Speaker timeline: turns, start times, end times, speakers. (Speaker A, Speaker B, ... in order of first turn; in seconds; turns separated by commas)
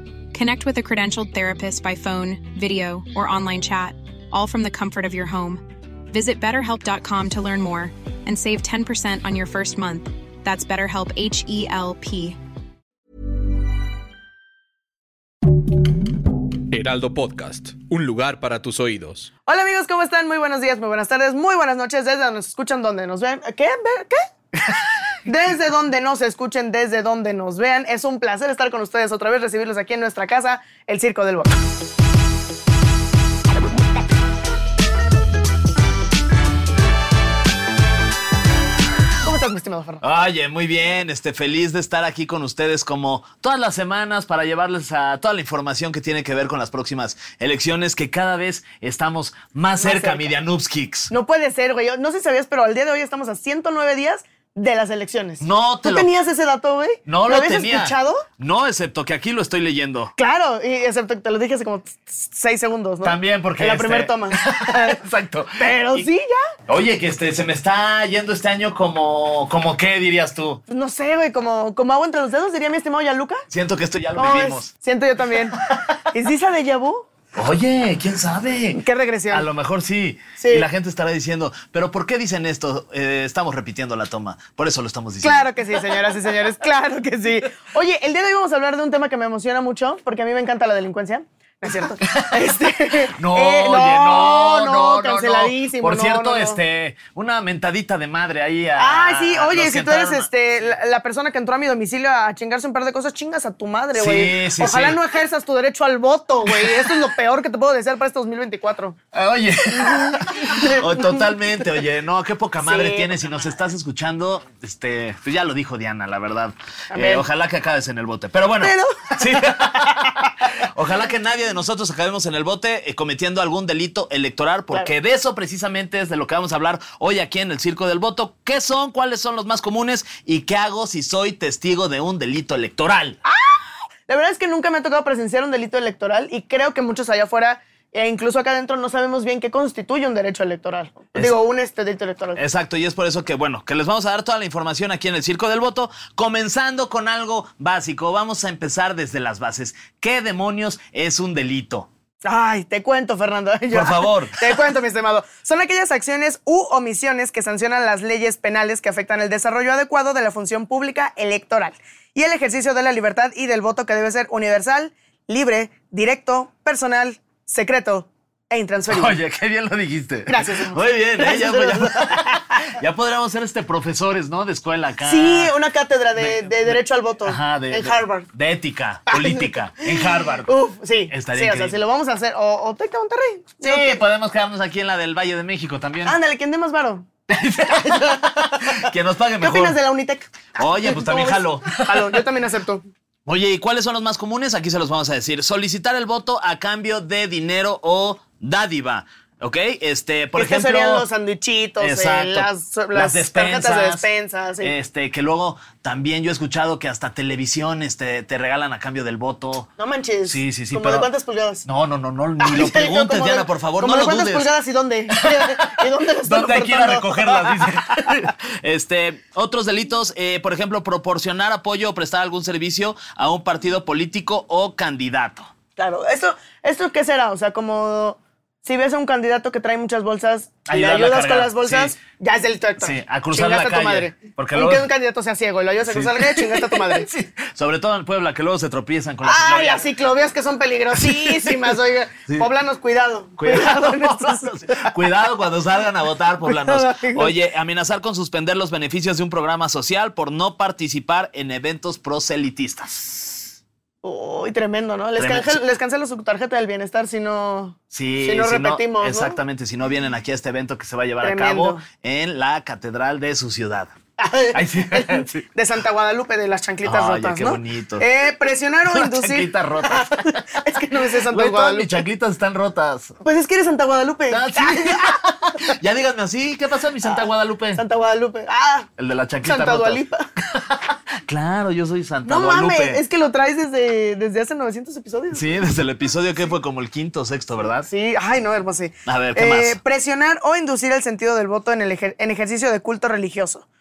Speaker A: 0.3-12.4, Speaker B: 16.7-19.3, Speaker C: 19.5-24.2, Speaker C: 25.2-31.7, Speaker C: 39.2-40.0, Speaker D: 40.0-51.1, Speaker C: 49.8-50.4, Speaker C: 51.1-58.2, Speaker D: 55.4-56.1, Speaker D: 57.0-60.1, Speaker C: 60.2-65.0, Speaker D: 63.0-66.1, Speaker C: 65.6-66.4, Speaker D: 66.7-70.6, Speaker C: 70.7-73.4, Speaker D: 73.5-74.7, Speaker C: 74.1-75.6, Speaker D: 75.5-76.0, Speaker C: 76.1-77.1, Speaker D: 77.3-85.8, Speaker C: 78.7-79.5, Speaker C: 80.4-80.7, Speaker C: 85.2-96.6, Speaker D: 92.0-100.3, Speaker C: 98.8-109.0, Speaker D: 103.9-105.0, Speaker D: 106.4-107.0, Speaker D: 109.1-133.2, Speaker C: 109.7-111.7, Speaker C: 112.6-113.5, Speaker C: 116.9-117.2, Speaker C: 118.6-120.3, Speaker C: 133.2-142.4, Speaker D: 142.3-151.9, Speaker C: 152.2-169.2, Speaker D: 153.7-154.6, Speaker D: 168.9-175.5, Speaker C: 170.3-172.7, Speaker C: 175.0-178.3, Speaker D: 176.2-180.5, Speaker C: 179.1-184.0, Speaker D: 181.1-181.8, Speaker D: 183.6-186.2, Speaker C: 186.0-187.1, Speaker D: 187.3-189.8, Speaker C: 187.6-192.8, Speaker D: 190.6-192.2, Speaker D: 193.2-201.1, Speaker C: 200.3-204.7, Speaker D: 201.8-204.0, Speaker D: 204.6-209.7, Speaker C: 209.8-211.6, Speaker D: 210.2-211.1, Speaker D: 211.7-214.5, Speaker C: 212.4-217.6, Speaker D: 215.2-225.5, Speaker C: 225.8-237.1, Speaker D: 230.7-231.9, Speaker D: 232.8-234.9, Speaker D: 235.8-239.9, Speaker C: 239.2-244.9, Speaker D: 240.9-241.7, Speaker D: 243.4-253.6, Speaker C: 246.4-247.3, Speaker C: 254.0-259.4, Speaker D: 255.2-255.6, Speaker D: 257.9-263.9, Speaker C: 261.2-261.8, Speaker C: 264.2-272.0, Speaker D: 264.5-265.4, Speaker D: 266.8-268.1, Speaker D: 268.9-273.2, Speaker C: 273.2-275.2, Speaker D: 274.3-277.8, Speaker C: 277.8-278.9, Speaker D: 279.0-283.0, Speaker C: 279.4-280.2, Speaker C: 282.2-285.6, Speaker D: 285.3-287.9, Speaker C: 287.9-293.6, Speaker D: 289.1-289.8